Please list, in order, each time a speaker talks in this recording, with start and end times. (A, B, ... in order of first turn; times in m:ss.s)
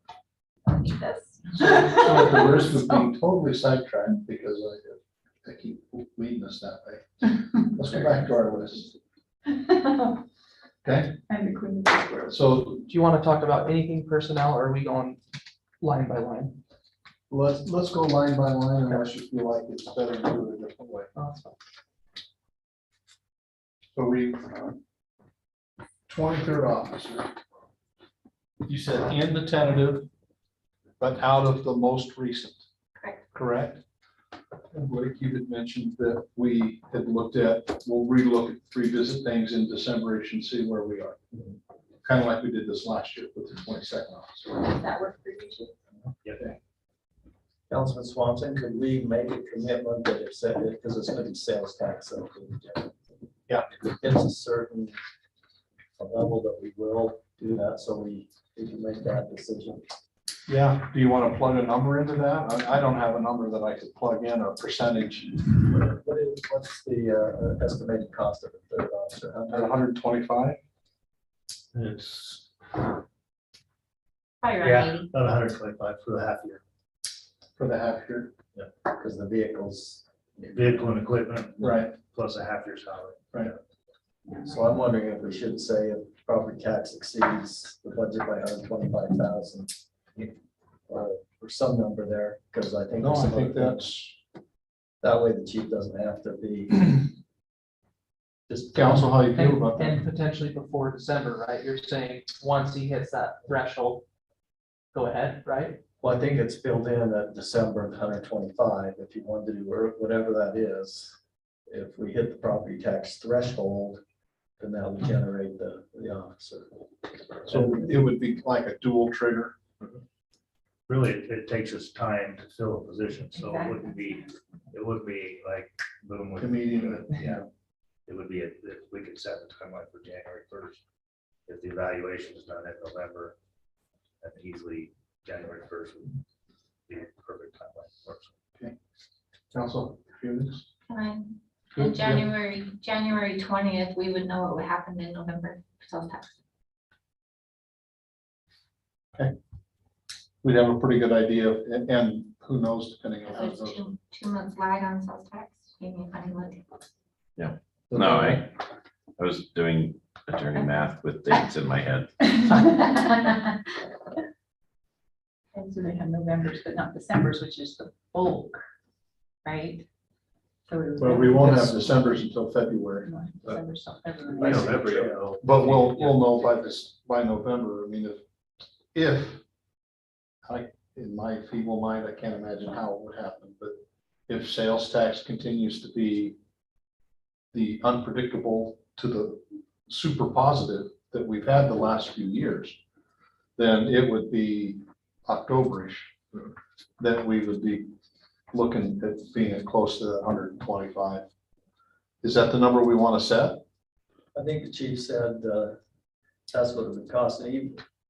0:00.7-0:02.5 A
0:01.6-0:09.0 B
0:09.5-0:10.2 A
0:10.8-0:11.2 B
0:11.3-0:12.3 A
0:12.3-0:12.8 B
0:12.9-0:15.2 C
0:15.8-0:16.6 C
0:17.3-0:21.1 B
0:21.2-0:21.5 C
0:23.9-0:24.7 B
0:26.1-0:27.3 B
0:28.6-0:30.1 B
0:31.0-0:32.6 B
0:33.0-0:33.2 D
0:33.3-0:33.8 B
0:34.7-0:41.2 B
0:42.0-0:44.6 B
0:44.5-0:45.7 A
0:47.7-0:53.0 E
0:53.7-0:54.9 E
0:56.0-0:59.9 E
1:00.5-1:05.4 B
1:05.5-1:09.7 E
1:09.5-1:10.6 B
1:11.7-1:12.8 F
1:14.4-1:15.1 D
1:14.6-1:16.6 F
1:17.6-1:18.3 B
1:18.8-1:20.0 E
1:20.4-1:23.5 F
1:21.6-1:21.9 B
1:24.4-1:29.8 E
1:30.9-1:33.8 E
1:33.0-1:34.2 B
1:35.0-1:37.1 E
1:38.5-1:39.1 E
1:38.7-1:39.9 B
1:39.3-1:44.0 C
1:44.9-1:45.8 C
1:46.0-1:51.2 E
1:51.7-1:54.0 E
1:54.6-1:56.7 E
1:57.4-1:59.5 B
2:00.9-2:07.4 F
2:03.3-2:04.3 A
2:06.4-2:07.4 B
2:08.0-2:10.8 F
2:11.4-2:13.4 F
2:14.2-2:16.2 F
2:16.9-2:18.3 F
2:19.5-2:20.6 B
2:20.9-2:26.3 D
2:21.8-2:22.3 B
2:30.4-2:33.8 B
2:33.3-2:36.6 D
2:37.4-2:38.5 G
2:39.2-2:42.1 G
2:42.4-2:43.4 A
2:45.5-2:48.6 A
2:49.4-2:49.8 A
2:50.7-2:52.2 A
2:51.0-2:53.1 B
2:53.0-2:54.8 A
2:54.3-2:56.7 F
2:55.4-2:58.2 B
2:58.9-2:59.4 B
3:00.4-3:06.4 B
3:07.5-3:12.8 B
3:13.6-3:16.1 B
3:17.0-3:17.9 B
3:18.5-3:21.2 B
3:22.2-3:23.6 B
3:24.3-3:25.8 E
3:26.5-3:27.8 E